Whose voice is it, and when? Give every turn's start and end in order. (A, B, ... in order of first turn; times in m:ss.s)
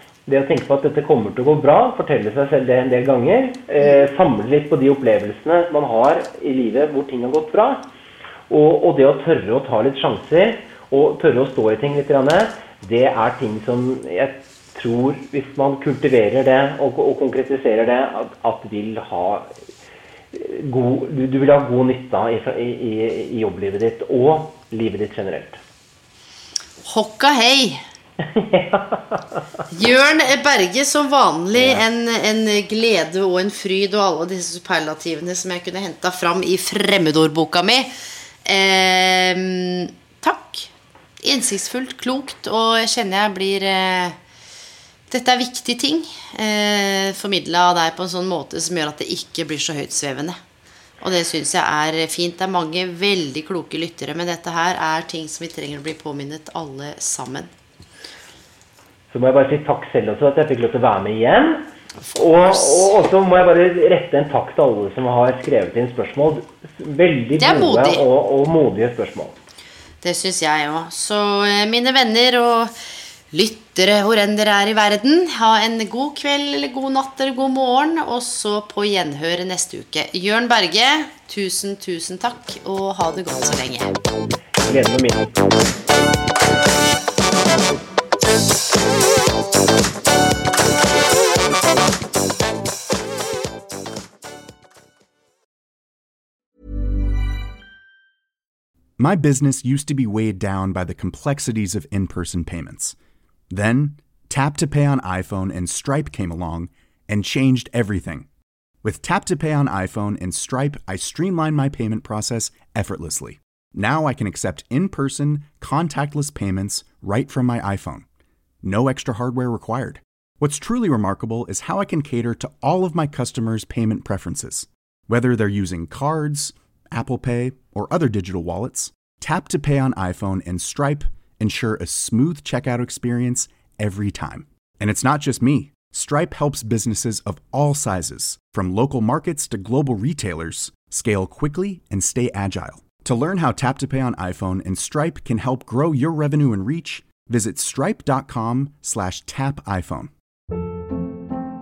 0:00.3-0:07.9 A
0:08.5-0:19.5 A
0:20.3-0:25.6 A
0:26.8-0:27.8 B
0:28.2-0:29.4 A
0:29.7-0:37.9 B
0:31.6-0:31.8 A
0:38.4-0:44.2 B
0:45.1-0:50.4 B
0:51.0-0:57.5 B
0:59.1-1:01.6 A
1:02.0-1:02.9 B
1:02.1-1:09.4 A
1:07.4-1:08.0 B
1:10.0-1:12.7 B
1:13.3-1:23.9 B
1:24.6-1:25.4 A
1:39.0-1:43.0 C
1:43.5-1:48.3 C
1:48.8-1:58.0 C
1:58.6-2:30.1 C